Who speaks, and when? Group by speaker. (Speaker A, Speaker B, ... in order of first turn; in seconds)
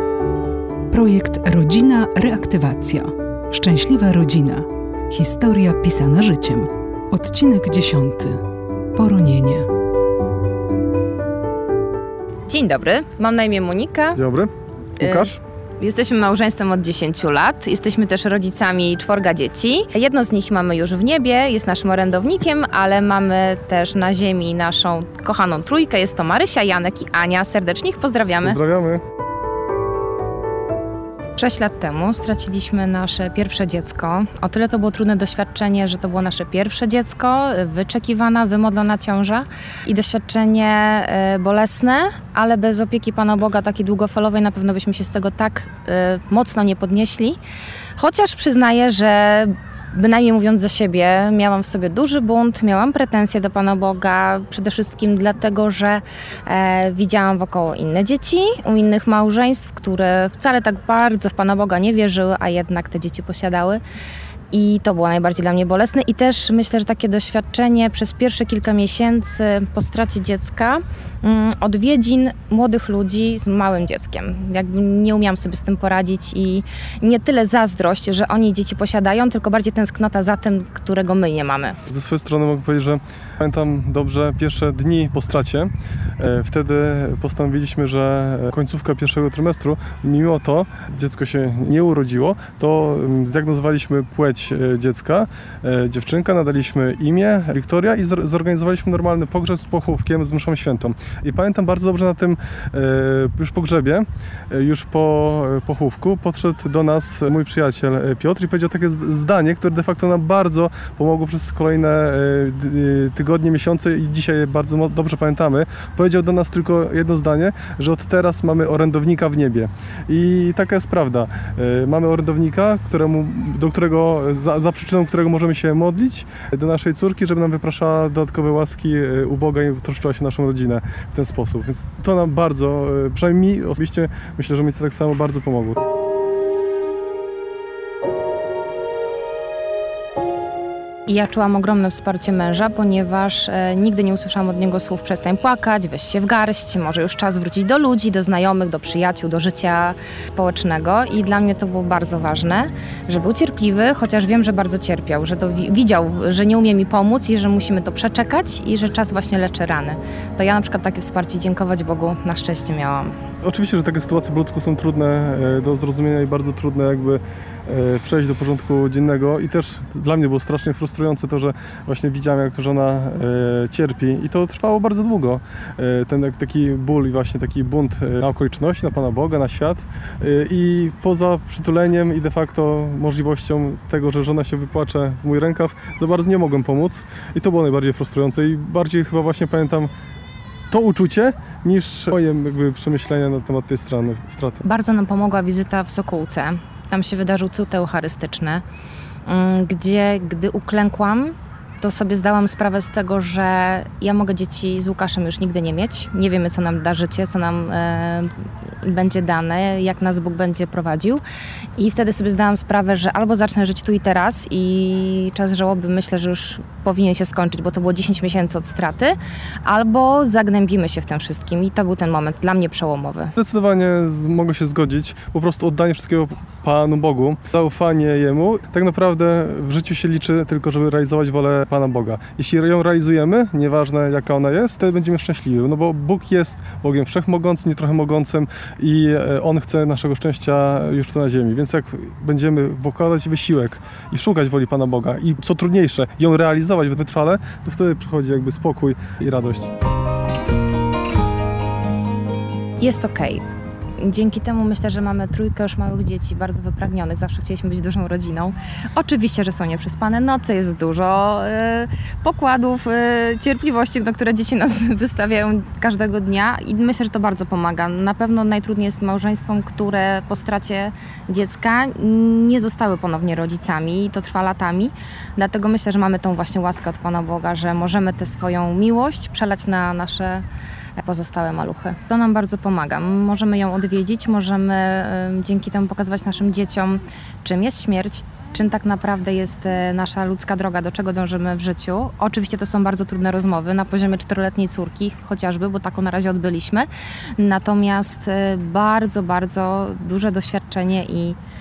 Speaker A: 0.9-8.4, 8.9-9.7
Speaker B: 12.5-14.2, 15.0-28.6, 31.4-47.4, 48.0-63.8, 64.5-81.8, 141.1-163.1, 194.6-198.6, 199.2-211.2, 211.8-223.3, 252.8-253.4, 254.0-280.4, 281.0-301.4
Speaker C: 14.1-15.4, 28.4-29.0, 81.9-135.8, 163.4-189.9, 190.7-194.6, 223.3-249.7